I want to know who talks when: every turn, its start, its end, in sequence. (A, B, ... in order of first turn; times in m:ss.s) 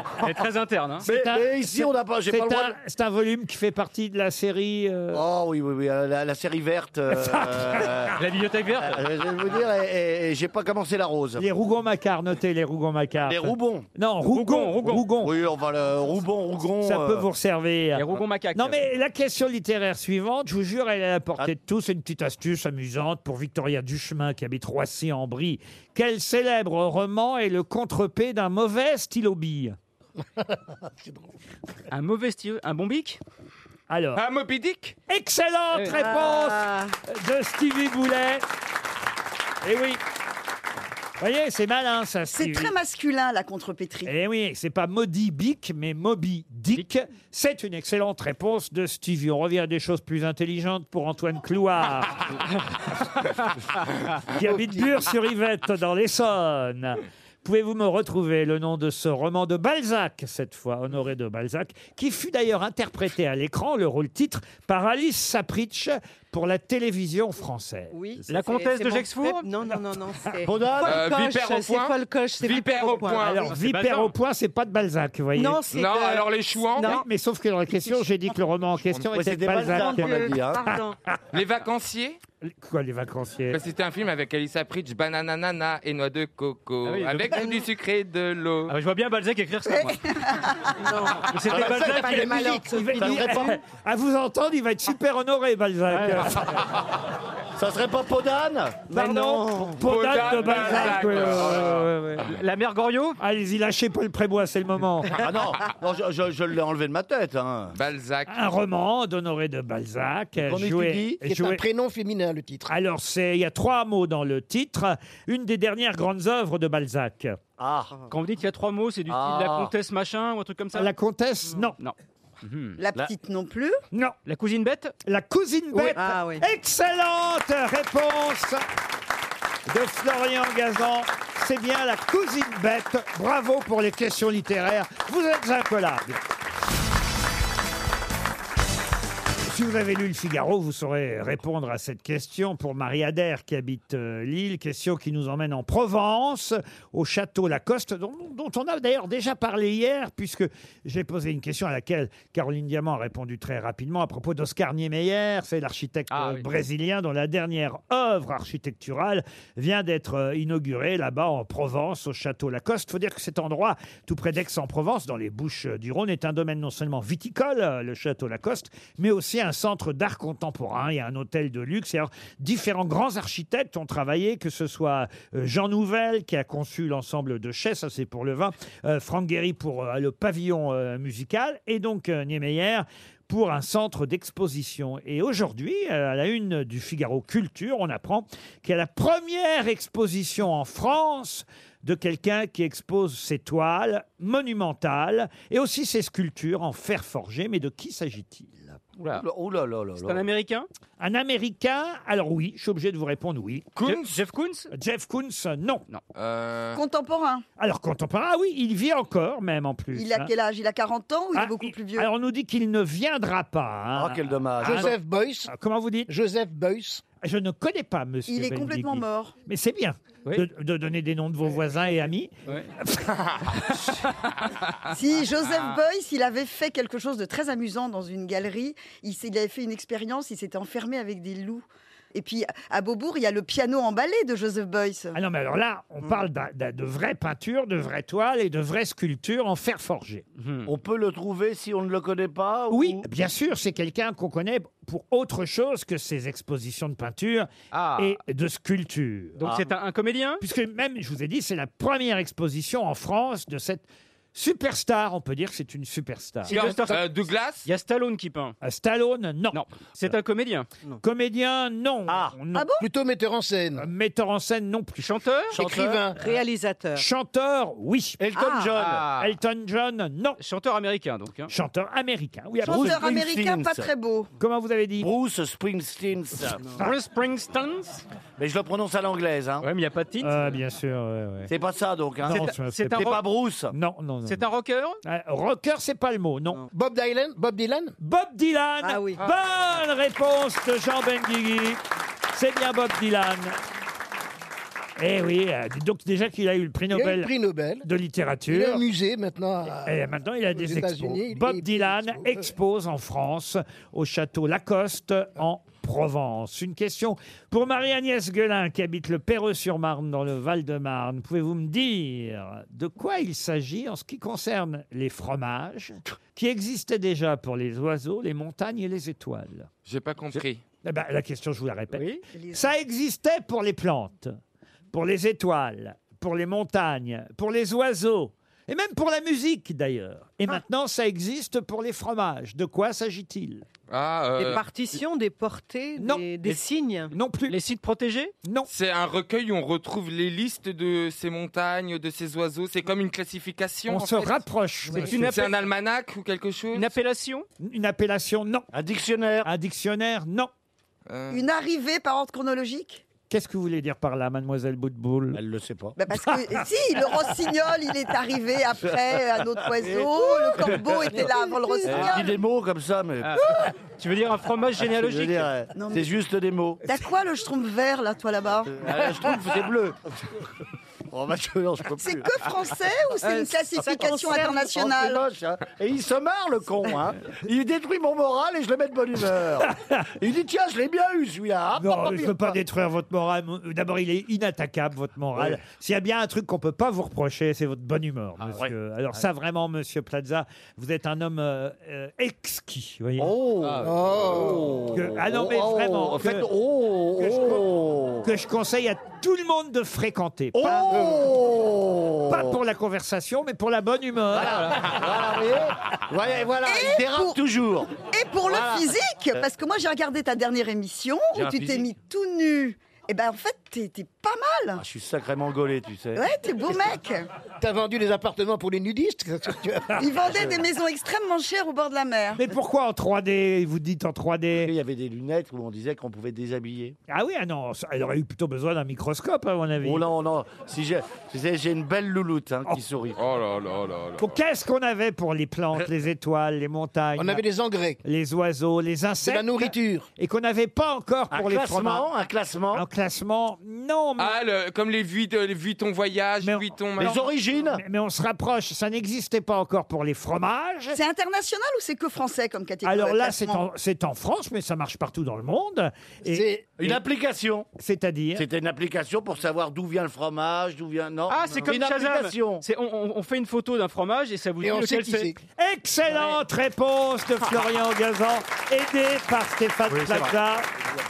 0:00.2-0:01.0 A
0:01.0-0:05.2 B
0:01.0-0:02.7 C
0:05.1-0:08.2 C
0:07.1-0:07.9 B
0:08.2-0:09.0 A
0:08.9-0:11.4 C
0:11.4-0:15.3 B
0:13.2-0:13.9 C
0:14.3-0:15.1 A
0:15.2-0:17.2 C
0:16.8-0:29.8 B
0:17.9-0:18.8 A
0:30.4-0:31.2 D
0:31.9-0:33.2 A
0:33.9-0:34.2 B
0:34.2-0:35.0 E
0:35.1-0:38.4 B
0:35.7-0:36.0 A
0:35.9-0:36.9 F
0:39.6-0:40.0 B
0:41.2-0:42.7 B
0:42.3-0:44.1 G
0:44.0-0:52.4 B
0:54.2-1:08.4 B
0:54.4-0:54.8 D
1:07.9-1:13.4 F
1:08.2-1:09.5 A
1:10.4-1:11.1 C
1:10.8-1:13.5 E
1:13.2-1:15.6 B
1:13.5-1:14.1 A
1:15.3-1:17.0 F
1:15.7-1:16.9 E
1:16.8-1:20.3 B
1:19.1-1:20.7 C
1:19.7-1:21.0 F
1:21.3-1:22.2 E
1:22.4-1:23.6 B
1:23.5-1:28.8 E
1:26.8-1:27.6 A
1:28.7-1:30.5 A
1:30.8-1:33.5 F
1:31.2-1:32.4 A
1:31.5-1:33.6 C
1:31.5-1:33.0 D
1:32.7-1:36.6 B
1:35.9-1:36.3 A
1:37.6-1:39.0 C
1:38.9-1:39.8 F
1:38.9-1:42.3 B
1:39.8-1:41.9 E
1:42.2-1:43.2 A
1:43.2-1:45.2 B
1:45.2-1:47.8 C
1:47.7-1:48.4 E
1:48.3-1:51.6 B
1:50.4-1:51.2 C
1:51.2-1:52.7 D
1:52.7-1:57.4 B
1:57.6-1:58.0 C
1:58.1-2:00.9 A
1:59.1-1:59.7 C
2:00.7-2:01.8 B
2:01.8-2:02.8 A
2:02.8-2:03.8 G
2:03.9-2:04.2 B
2:04.2-2:04.9 A
2:05.0-2:08.6 B
2:05.7-2:06.5 F
2:09.7-2:16.2 B
2:19.4-3:18.8 B
2:36.1-2:36.5 A
3:19.0-3:19.2 A
3:19.1-3:20.2 C
3:20.0-3:20.7 A
3:21.0-3:23.7 B
3:23.8-3:24.2 E
3:23.8-3:24.7 A
3:24.7-3:25.8 B
3:26.1-3:26.8 E
3:26.7-3:27.4 G
3:27.6-3:30.3 B
3:29.9-3:32.1 G
3:31.3-3:34.9 B
3:33.9-3:34.9 C
3:34.6-3:35.5 D
3:35.4-3:36.1 B
3:36.1-3:37.0 D
3:37.2-3:43.1 B
3:38.3-3:39.3 G
3:42.4-3:42.7 A
3:43.8-3:44.5 A
3:44.9-3:55.2 G
3:55.1-4:00.2 B
4:00.4-4:00.7 A
4:00.6-4:03.0 C
4:02.7-4:09.4 B
4:07.7-4:08.2 A
4:09.4-4:10.4 A
4:10.4-4:16.6 B
4:16.5-4:17.1 A
4:16.5-4:17.7 E
4:17.6-4:18.5 A
4:18.6-4:20.1 B
4:19.5-4:20.7 A
4:21.0-4:22.7 B
4:22.1-4:22.3 C
4:22.5-4:22.8 G
4:22.8-4:23.9 D
4:23.8-4:25.1 B
4:25.0-4:25.6 A
4:25.5-4:26.2 C
4:25.5-4:26.2 D
4:26.2-4:27.1 F
4:26.9-4:28.2 B
4:28.2-4:29.1 C
4:28.3-4:28.7 F
4:28.8-4:29.3 A
4:29.1-4:30.4 B
4:30.4-4:31.5 A
4:31.5-4:33.2 B
4:32.6-4:33.9 C
4:32.6-4:34.3 G
4:34.4-4:35.1 B
4:35.0-4:36.6 C
4:36.6-4:36.9 B
4:36.7-4:38.0 A
4:38.4-4:39.6 C
4:39.6-4:40.5 A
4:40.2-4:41.5 B
4:41.5-4:43.7 C
4:42.2-4:43.2 B
4:42.3-4:43.2 A
4:43.7-4:44.4 B
4:44.2-4:45.0 A
4:45.0-4:46.6 B
4:46.7-4:47.9 D
4:48.0-4:51.8 B
4:48.8-4:49.2 F
4:52.3-4:53.6 B
4:55.0-4:57.3 B
4:56.9-4:57.8 D
4:57.8-4:58.8 B
4:58.5-5:00.0 D
4:59.8-5:19.7 B
5:00.5-5:02.5 D
5:19.8-5:20.6 E
5:20.8-5:24.4 B
5:21.9-5:22.2 A
5:22.3-5:22.6 G
5:24.9-5:33.6 B
5:33.9-5:34.7 E
5:34.4-5:37.1 F
5:36.0-5:36.3 B
5:37.1-5:37.6 B
5:37.5-5:38.3 A
5:38.4-5:38.7 B
5:38.7-5:44.4 E
5:43.9-5:45.3 B
5:44.9-5:45.6 A
5:45.0-5:46.9 E
5:46.7-5:47.4 A
5:47.6-5:48.7 B
5:48.7-5:49.5 C
5:49.4-5:50.5 B
5:51.1-5:51.4 E
5:51.3-5:53.0 G
5:53.3-5:55.4 B
5:55.3-5:56.0 C
5:56.0-6:02.3 G
5:56.1-5:56.6 B
5:59.8-6:03.4 C
6:01.8-6:02.3 A
6:03.2-6:05.5 A
6:04.8-6:06.8 C
6:05.7-6:06.1 G
6:06.8-6:08.7 G
6:08.7-6:10.0 C
6:11.1-6:12.3 C
6:12.0-6:15.2 G
6:13.2-6:14.7 F
6:13.9-6:22.5 C
6:19.7-6:20.0 B
6:21.8-6:33.3 B
6:28.4-6:28.7 C
6:33.2-6:38.2 C
6:33.8-6:34.7 D
6:34.9-6:36.5 B
6:37.2-6:37.7 B
6:38.2-6:41.0 B
6:40.5-6:42.5 C
6:42.3-6:45.0 B
6:44.3-6:47.9 C
6:46.6-6:47.4 G
6:48.0-6:54.8 G
6:51.3-6:51.9 C
6:54.8-6:56.2 C
6:56.2-6:57.2 G
6:57.6-7:00.1 D
7:00.0-7:02.4 G
7:00.3-7:00.6 C
7:02.4-7:04.7 B
7:04.5-7:07.0 C
7:07.1-7:10.0 B
7:09.8-7:13.2 C
7:13.2-7:14.3 E
7:14.2-7:17.4 B
7:17.2-7:18.0 D
7:18.0-7:22.1 B
7:19.2-7:20.1 D
7:21.3-7:22.8 C
7:22.7-7:24.4 B
7:24.2-7:27.2 E
7:26.4-7:27.2 B
7:27.0-7:27.8 C
7:27.7-7:31.0 B
7:30.9-7:33.6 G
7:32.8-7:36.5 B
7:36.2-7:36.9 D
7:36.8-7:37.7 C
7:37.8-7:38.5 B
7:38.3-7:42.6 C
7:41.3-7:45.3 A
7:44.6-7:45.4 D
7:45.6-7:50.7 B
7:49.9-7:50.3 A